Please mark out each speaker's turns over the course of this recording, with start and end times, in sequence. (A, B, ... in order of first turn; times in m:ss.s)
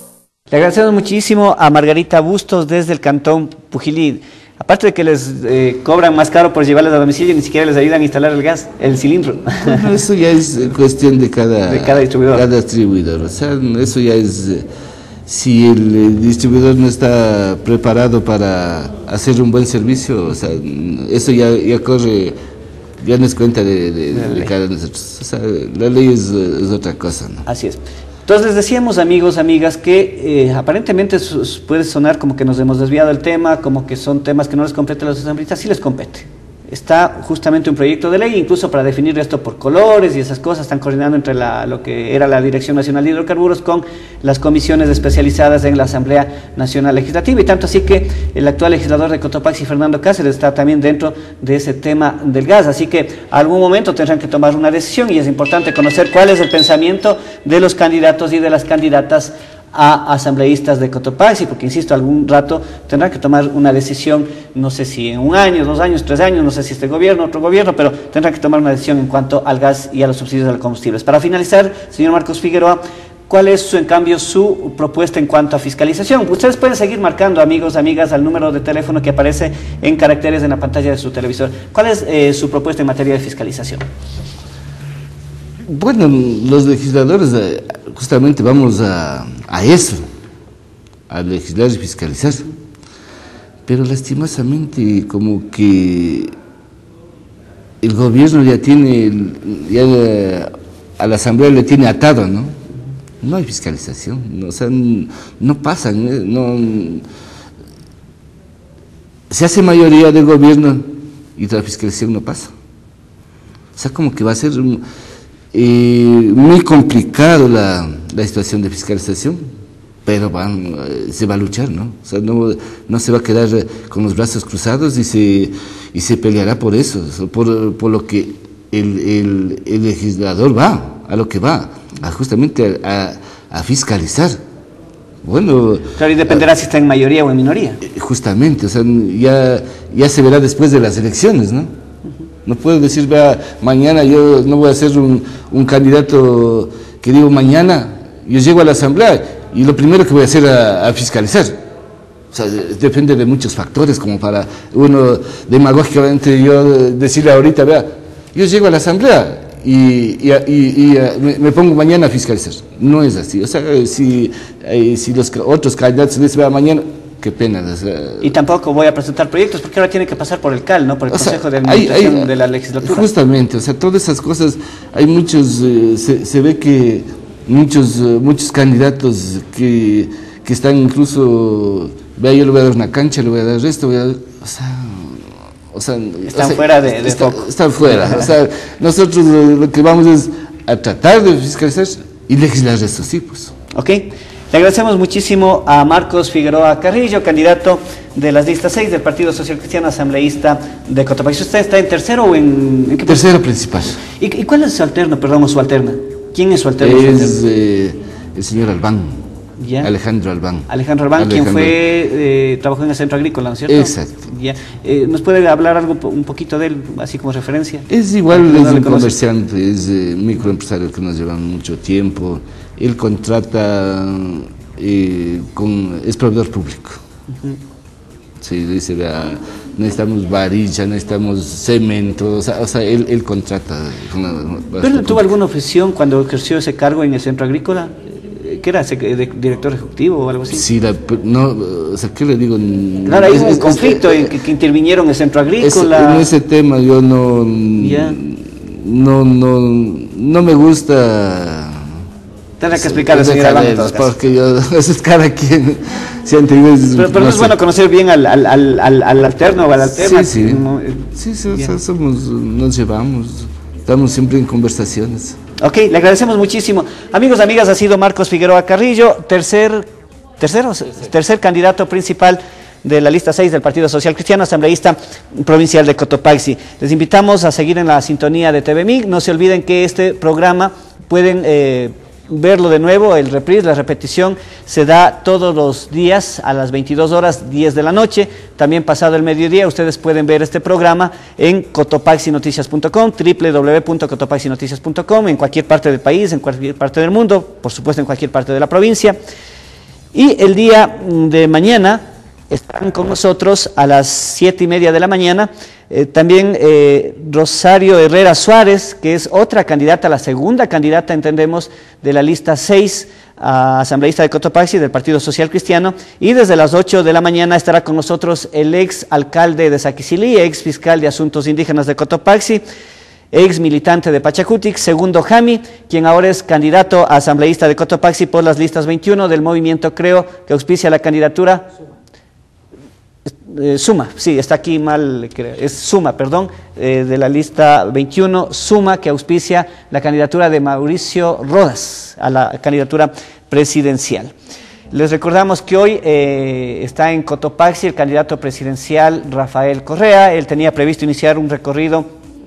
0:00.5-0:09.8 A
0:09.6-0:14.7 B
0:11.7-0:12.5 A
0:15.3-0:22.4 B
0:23.0-0:27.5 B
0:24.1-0:24.5 A
0:27.5-1:23.8 A
1:25.7-1:30.0 B
1:31.1-1:32.5 B
1:33.7-1:36.3 B
1:37.8-1:42.6 B
1:43.2-1:47.0 B
1:49.3-1:52.5 B
1:53.8-1:54.8 B
1:55.5-1:59.5 B
2:00.0-2:14.4 B
2:15.2-2:16.4 B
2:16.0-2:17.8 A
2:17.8-2:21.7 B
2:22.4-2:31.6 B
2:32.3-2:48.3 B
2:48.2-2:53.1 A
2:51.1-3:13.5 B
3:06.3-3:08.3 A
3:13.7-3:23.2 A
3:23.0-3:24.0 B
3:24.0-3:27.4 A
3:26.8-3:29.2 B
3:29.6-3:29.9 A
3:29.8-3:31.8 B
3:30.7-3:39.2 A
3:33.7-3:34.2 B
3:37.9-3:47.0 B
3:48.4-3:55.3 B
3:54.8-4:00.6 A
4:00.5-4:04.3 B
4:03.0-4:06.3 A
4:05.6-4:11.9 B
4:07.8-4:08.2 A
4:12.6-4:14.1 A
4:12.8-4:17.6 B
4:16.9-4:21.8 A
4:20.0-4:20.6 B
4:21.2-4:25.4 B
4:25.6-4:29.9 A
4:30.4-4:59.2 A
5:00.1-5:22.6 A
5:23.3-5:31.7 A
5:33.3-5:44.3 A
5:44.9-5:52.1 A